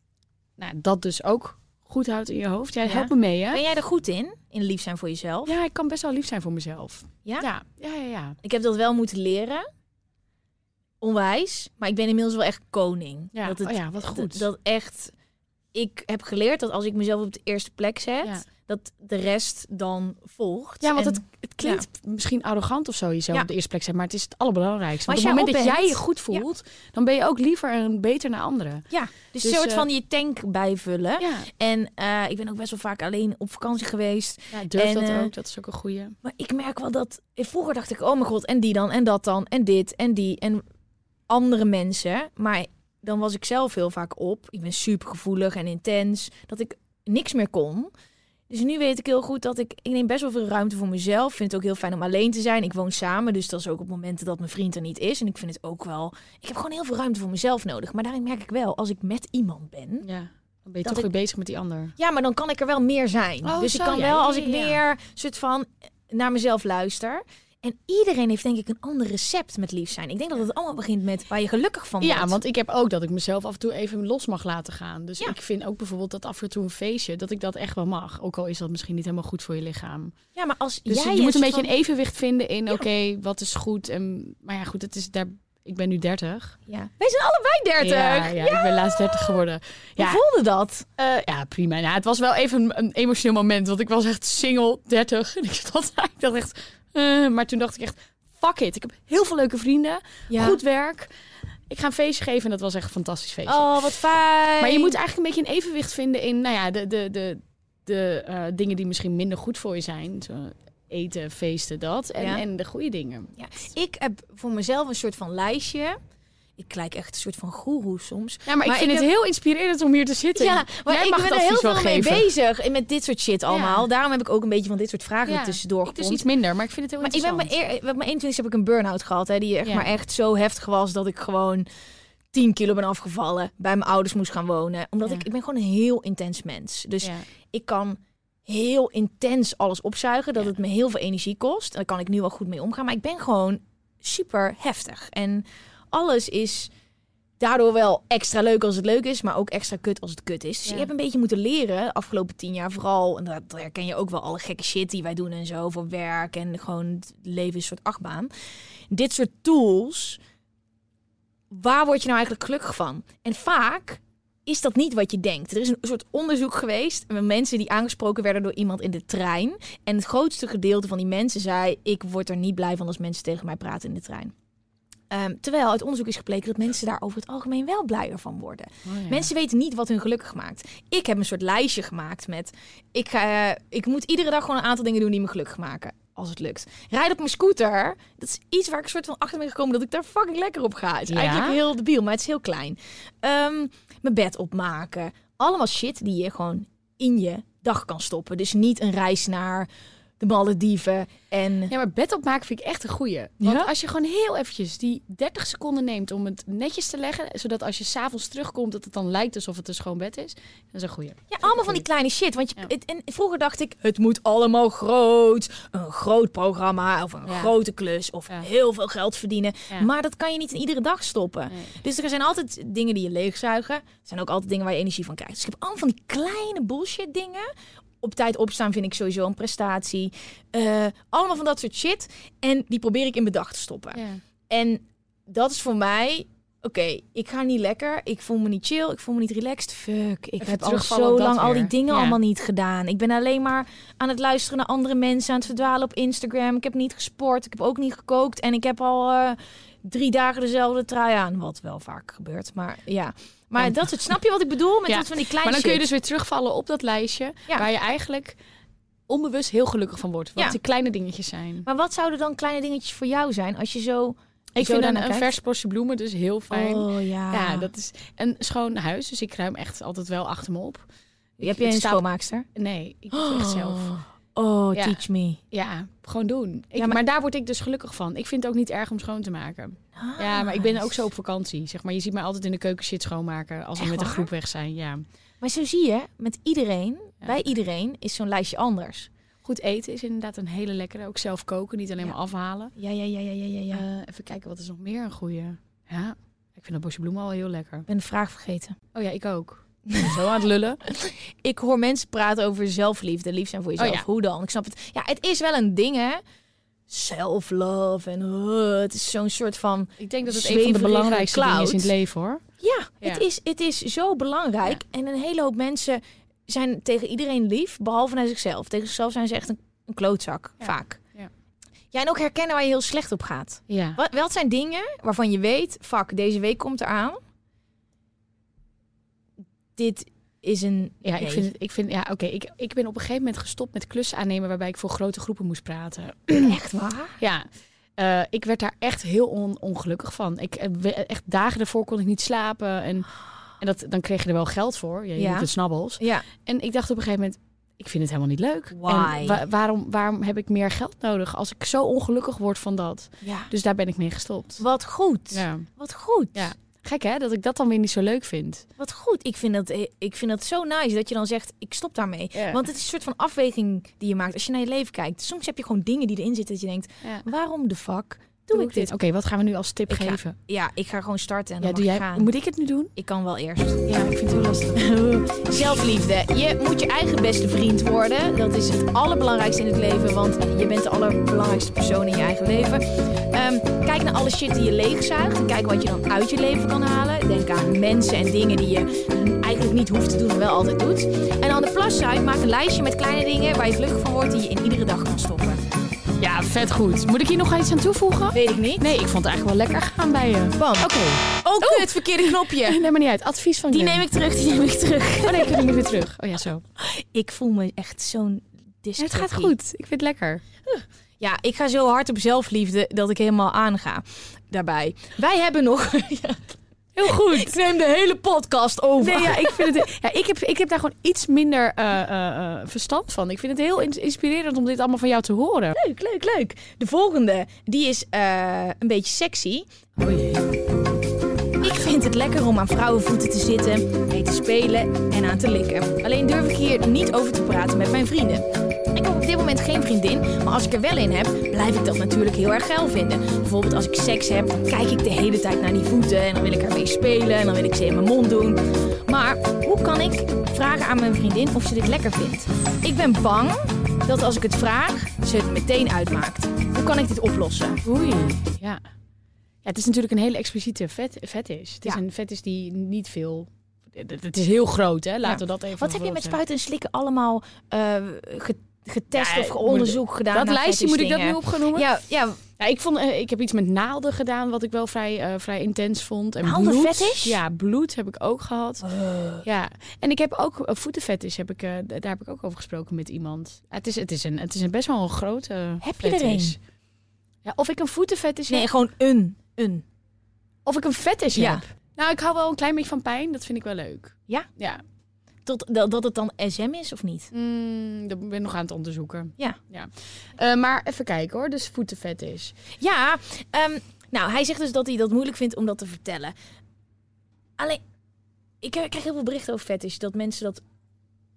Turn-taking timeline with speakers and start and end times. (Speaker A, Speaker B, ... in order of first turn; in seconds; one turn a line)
Speaker A: 0.6-3.6
Speaker B: 2.8-5.5
Speaker A: 5.5-8.4
Speaker B: 8.4-9.6
Speaker B: 11.0-15.1
Speaker A: 13.3-14.4
Speaker B: 15.7-21.8
Speaker A: 20.8-28.8
Speaker B: 25.1-26.4
Speaker B: 28.9-35.3
Speaker A: 29.4-29.9
Speaker A: 31.2-31.5
Speaker A: 34.5-36.1
Speaker B: 36.2-40.6
Speaker B: 41.3-47.9
Speaker B: 48.5-60.1
Speaker A: 60.0-61.9
Speaker B: 62.0-72.4
Speaker A: 63.4-64.8
Speaker A: 72.0-80.1
Speaker B: 80.3-81.7
Speaker A: 80.9-86.6
Speaker B: 86.7-89.4
Speaker A: 87.8-90.2
Speaker B: 90.0-90.8
Speaker A: 91.0-101.1
Speaker B: 100.3-100.6
Speaker A: 101.7-103.7
Speaker B: 103.5-105.0
Speaker A: 104.6-113.3
Speaker B: 112.2-112.4
Speaker B: 113.4-116.0
Speaker B: 116.6-119.1
Speaker A: 118.5-122.3
Speaker B: 120.3-126.2
Speaker A: 123.5-123.8
Speaker A: 125.3-127.5
Speaker B: 127.0-131.7
Speaker A: 129.7-129.9
Speaker B: 132.3-146.7
Speaker B: 147.4-158.3
Speaker B: 158.9-160.2
Speaker B: 161.5-174.3
Speaker B: 175.1-199.7
Speaker A: 178.8-179.3
Speaker A: 191.1-191.6
Speaker B: 200.2-201.7
Speaker A: 201.7-211.8
Speaker B: 203.4-203.7
Speaker B: 211.3-227.5
Speaker A: 217.2-217.5
Speaker B: 228.0-255.8
Speaker A: 233.9-234.2
Speaker A: 240.4-242.2
Speaker A: 254.9-258.4
Speaker A: 259.1-261.6
Speaker B: 261.6-265.3
Speaker A: 264.6-270.8
Speaker B: 266.5-267.7
Speaker A: 271.4-272.0
Speaker B: 271.4-272.4
Speaker A: 272.6-274.0
Speaker B: 273.1-275.4
Speaker A: 275.5-285.0
Speaker B: 280.0-281.0
Speaker B: 283.8-284.3
Speaker B: 285.4-289.1
Speaker A: 289.4-292.7
Speaker B: 292.8-293.8
Speaker A: 293.7-297.9
Speaker B: 297.9-298.8
Speaker A: 298.9-300.8
Speaker B: 299.9-306.2
Speaker A: 303.8-304.0
Speaker B: 306.9-311.9
Speaker A: 310.0-312.4
Speaker B: 312.6-321.0
Speaker A: 320.6-321.3
Speaker B: 321.9-327.2
Speaker A: 323.7-324.0
Speaker B: 329.8-331.5
Speaker A: 331.0-336.6
Speaker B: 336.4-337.2
Speaker A: 337.2-354.6
Speaker B: 345.2-346.2
Speaker B: 348.7-349.4
Speaker B: 353.2-353.5
Speaker B: 354.6-356.5
Speaker A: 355.3-355.6
Speaker A: 356.3-358.6
Speaker B: 358.8-368.9
Speaker A: 362.3-362.6
Speaker A: 368.5-370.3
Speaker B: 369.9-372.3
Speaker A: 371.6-372.9
Speaker B: 372.9-373.8
Speaker A: 373.9-374.8
Speaker B: 374.8-395.6
Speaker A: 396.2-404.0
Speaker B: 398.3-398.9
Speaker B: 400.6-402.8
Speaker B: 403.7-405.7
Speaker A: 405.2-406.6
Speaker B: 406.8-409.5
Speaker A: 409.0-410.4
Speaker B: 410.7-419.8
Speaker A: 416.9-417.6
Speaker A: 419.0-425.7
Speaker B: 425.7-429.7
Speaker A: 430.0-430.4
Speaker B: 431.6-457.8
Speaker A: 457.8-458.8
Speaker A: 459.6-466.4
Speaker B: 465.2-472.4
Speaker A: 469.1-471.9
Speaker A: 472.6-478.9
Speaker B: 476.4-477.4
Speaker B: 478.8-479.4
Speaker A: 479.4-486.6
Speaker B: 485.8-486.6
Speaker A: 487.4-488.7
Speaker B: 488.5-489.8
Speaker A: 490.6-494.8
Speaker B: 491.3-491.6
Speaker B: 495.4-497.3
Speaker A: 497.3-502.5
Speaker B: 502.8-506.3
Speaker B: 508.6-510.6